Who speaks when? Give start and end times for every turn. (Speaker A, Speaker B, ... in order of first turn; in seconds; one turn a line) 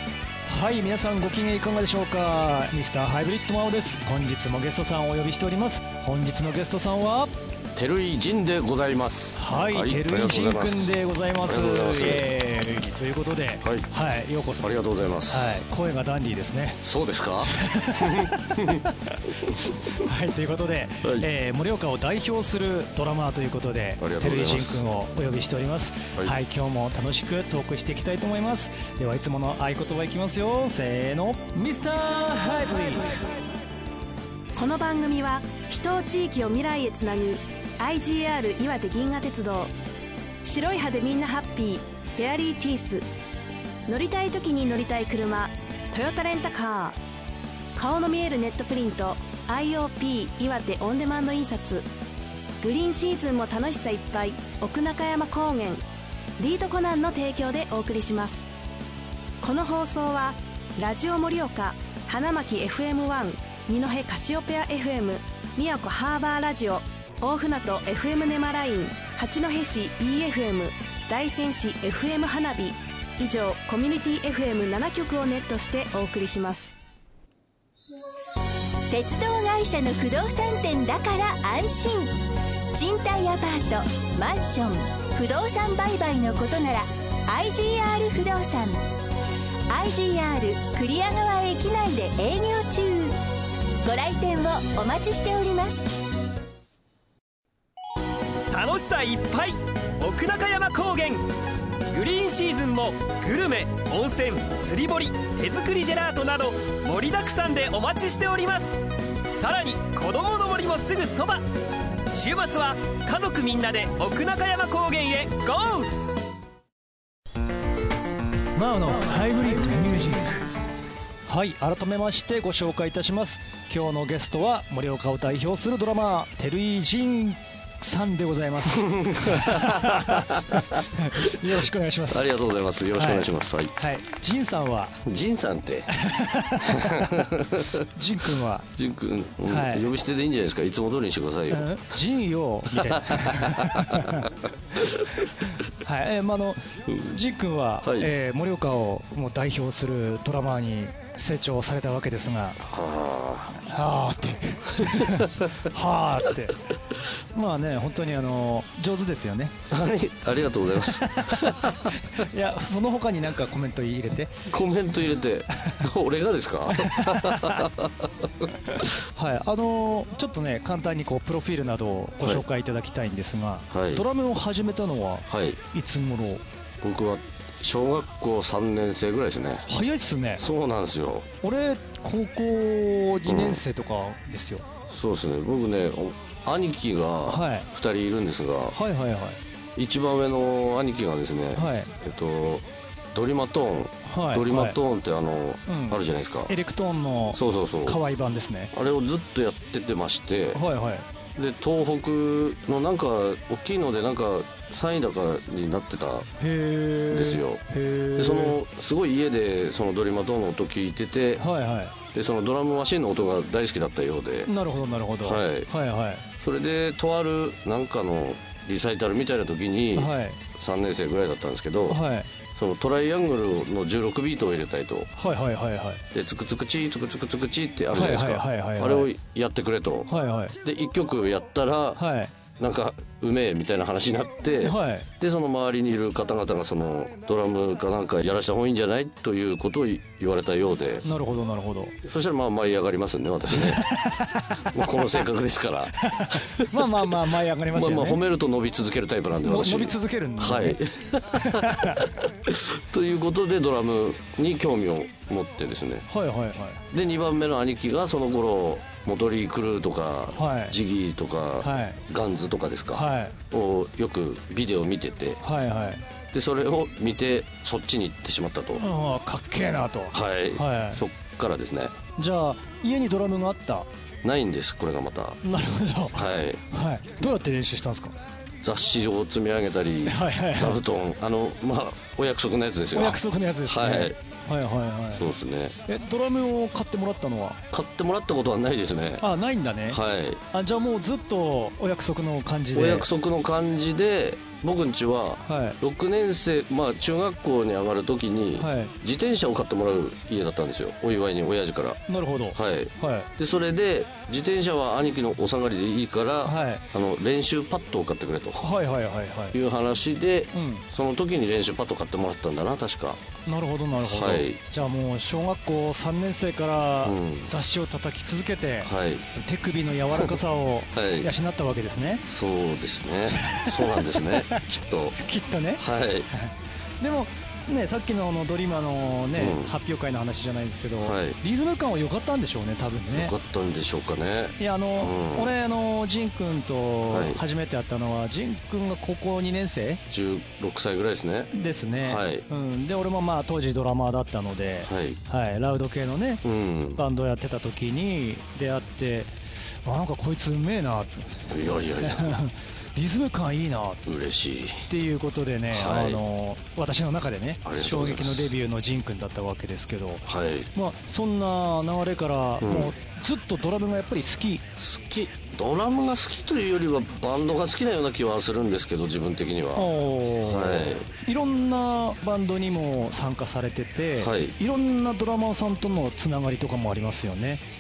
Speaker A: 0.5-7.3
Speaker B: 7.8-10.9
Speaker A: 9.4-14.8
Speaker B: 11.5-12.3
Speaker B: 14.6-15.6
Speaker A: 15.3-16.8
Speaker B: 16.8-18.9
Speaker A: 17.4-33.4
Speaker B: 21.0-21.3
Speaker B: 24.0-24.9
Speaker C: 34.6-39.7
Speaker C: 40.4-43.0
Speaker C: 43.9-47.0
Speaker C: 47.8-51.9
Speaker C: 52.6-55.8
Speaker C: 56.4-58.5
Speaker C: 59.4-76.7
Speaker D: 78.9-82.1
Speaker D: 82.7-88.8
Speaker D: 89.7-93.2
Speaker D: 93.8-96.0
Speaker E: 98.5-101.3
Speaker E: 101.9-108.8
Speaker E: 109.3-111.4
Speaker E: 112.1-115.9
Speaker A: 118.6-120.4
Speaker A: 121.3-132.3
Speaker B: 128.7-130.7
Speaker B: 132.1-133.7
Speaker A: 132.9-135.0
Speaker B: 135.1-135.9
Speaker A: 135.9-137.2
Speaker B: 136.7-137.8
Speaker A: 137.9-138.7
Speaker B: 138.8-141.7
Speaker A: 139.5-139.9
Speaker A: 141.5-144.3
Speaker B: 142.8-145.2
Speaker A: 145.8-152.6
Speaker B: 147.8-148.1
Speaker B: 152.6-153.6
Speaker A: 153.6-156.6
Speaker B: 154.8-155.3
Speaker A: 157.2-159.6
Speaker B: 159.7-161.9
Speaker A: 161.0-164.4
Speaker B: 164.5-168.9
Speaker A: 166.7-167.6
Speaker A: 168.8-176.4
Speaker B: 173.7-174.0
Speaker B: 175.3-175.6
Speaker B: 176.8-179.7
Speaker A: 179.7-180.4
Speaker B: 180.4-181.3
Speaker A: 181.4-184.7
Speaker B: 183.3-183.6
Speaker B: 184.9-188.8
Speaker A: 187.3-187.7
Speaker A: 188.7-189.4
Speaker B: 189.8-196.5
Speaker A: 191.5-191.9
Speaker A: 194.1-194.8
Speaker A: 195.7-198.7
Speaker B: 197.3-198.0
Speaker B: 198.7-200.6
Speaker A: 200.5-201.1
Speaker B: 201.3-206.3
Speaker A: 206.4-208.6
Speaker B: 207.1-207.6
Speaker B: 208.2-211.5
Speaker A: 211.4-211.9
Speaker B: 212.1-214.5
Speaker A: 214.5-216.2
Speaker B: 215.2-215.7
Speaker B: 216.4-222.0
Speaker A: 219.9-220.4
Speaker A: 221.9-222.3
Speaker B: 222.6-225.1
Speaker A: 225.2-226.0
Speaker B: 226.1-230.1
Speaker A: 227.9-229.1
Speaker A: 230.1-230.6
Speaker B: 230.6-232.0
Speaker A: 232.0-232.3
Speaker B: 232.6-241.1
Speaker A: 234.6-235.1
Speaker A: 241.0-242.0
Speaker B: 242.0-243.9
Speaker A: 243.5-244.6
Speaker B: 244.7-246.9
Speaker A: 246.0-248.2
Speaker B: 247.7-256.1
Speaker A: 249.4-250.8
Speaker A: 251.4-252.0
Speaker A: 256.1-256.8
Speaker B: 256.9-265.4
Speaker A: 260.4-260.8
Speaker A: 261.6-262.0
Speaker A: 262.9-263.3
Speaker A: 265.4-266.0
Speaker B: 266.3-268.8
Speaker A: 268.8-271.0
Speaker B: 270.1-272.0
Speaker A: 272.2-273.9
Speaker B: 274.2-275.4
Speaker A: 275.4-278.1
Speaker B: 276.1-276.6
Speaker B: 278.6-284.2
Speaker A: 280.1-280.8
Speaker A: 282.9-285.3
Speaker B: 285.1-285.8
Speaker A: 285.9-287.6
Speaker B: 287.7-289.2
Speaker A: 289.2-290.0
Speaker B: 289.9-290.4
Speaker A: 290.5-293.1
Speaker B: 292.7-302.0
Speaker A: 295.4-295.8
Speaker A: 298.6-298.9
Speaker A: 302.1-303.3
Speaker B: 302.5-308.7
Speaker A: 306.4-306.9
Speaker A: 308.6-309.6
Speaker B: 309.5-313.2
Speaker A: 310.5-310.8
Speaker A: 313.5-322.2
Speaker B: 314.0-314.6
Speaker B: 317.0-317.5
Speaker B: 318.8-319.3
Speaker B: 320.9-321.3
Speaker B: 322.3-325.2
Speaker A: 323.5-324.6
Speaker A: 325.2-325.8
Speaker B: 325.8-326.3
Speaker A: 327.0-333.3
Speaker B: 329.4-329.7
Speaker B: 331.0-331.4
Speaker B: 333.1-335.5
Speaker A: 334.6-340.0
Speaker B: 337.1-337.4
Speaker B: 340.1-342.4
Speaker A: 341.5-346.4
Speaker B: 344.9-345.2
Speaker B: 346.4-347.0
Speaker A: 347.0-349.3
Speaker A: 349.9-351.5
Speaker B: 351.5-352.4
Speaker A: 352.0-354.0
Speaker B: 354.1-354.9
Speaker A: 354.9-364.6
Speaker B: 355.7-356.2
Speaker B: 357.6-358.5
Speaker B: 360.3-360.7
Speaker B: 362.6-362.9
Speaker B: 364.8-369.9
Speaker A: 369.8-377.6
Speaker B: 370.4-371.1
Speaker B: 374.2-374.5